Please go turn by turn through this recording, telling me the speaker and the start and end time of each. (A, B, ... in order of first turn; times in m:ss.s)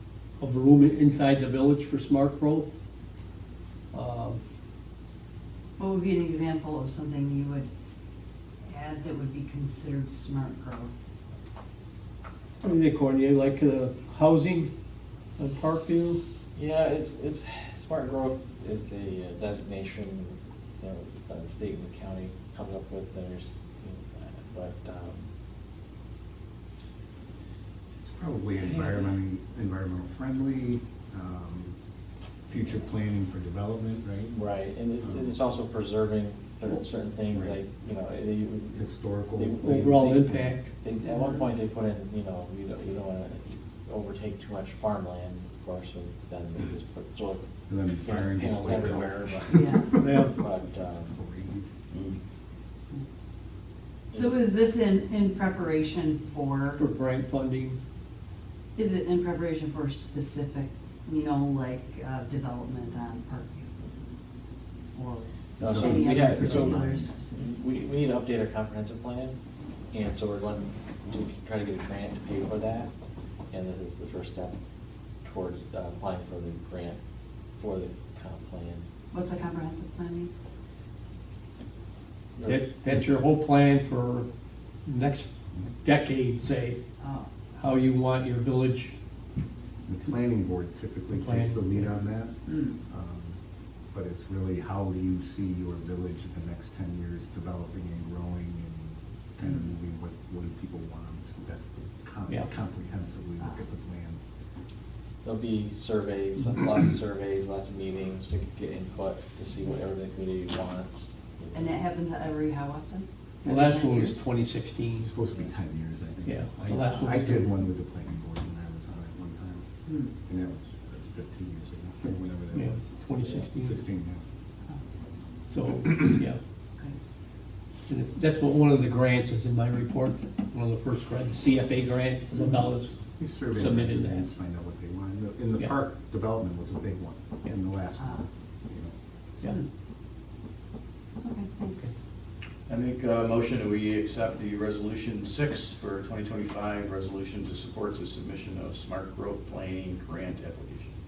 0:00.4-0:02.7 A
0:03.9-0:04.4 A
0:05.8-0:07.7 B
0:08.6-0:11.0 B
0:12.6-0:14.7 A
0:15.4-0:16.2 A
0:16.5-0:25.3 C
0:28.0-0:31.8 D
0:28.6-0:29.1 C
0:32.4-0:34.4 D
0:34.3-0:51.1 C
0:35.0-0:35.4 D
0:37.3-0:37.6 D
0:38.7-0:40.5 D
0:39.6-0:40.7 A
0:41.0-0:41.4 B
0:47.7-0:49.6 D
0:49.5-0:50.0 B
0:50.0-0:50.3 A
0:50.3-0:51.8 D
0:54.1-0:54.5 C
0:54.1-0:56.8 B
0:56.8-0:57.8 A
0:58.8-1:03.9 B
1:04.9-1:07.5 B
1:05.6-1:07.1 D
1:05.6-1:09.4 C
1:09.9-1:12.9 C
1:13.5-1:14.5 C
1:15.2-1:17.0 C
1:17.6-1:18.9 C
1:19.1-1:20.3 B
1:22.4-1:22.6 C
1:22.4-1:24.3 A
1:24.8-1:26.8 A
1:27.0-1:27.3 B
1:27.6-1:28.9 A
1:29.9-1:33.4 D
1:31.1-1:31.9 A
1:32.5-1:32.7 B
1:33.9-1:44.2 D
1:45.2-1:51.8 C
1:51.5-1:54.2 B
1:53.4-1:55.1 A
1:55.0-2:02.9 D
1:56.2-1:57.5 A
1:59.8-2:00.1 B
2:02.5-2:03.8 A
2:03.5-2:04.2 D
2:05.5-2:06.4 A
2:07.9-2:12.9 A
2:13.2-2:18.9 D
2:13.5-2:14.3 A
2:18.0-2:18.2 B
2:21.2-2:22.0 B
2:22.7-2:30.9 E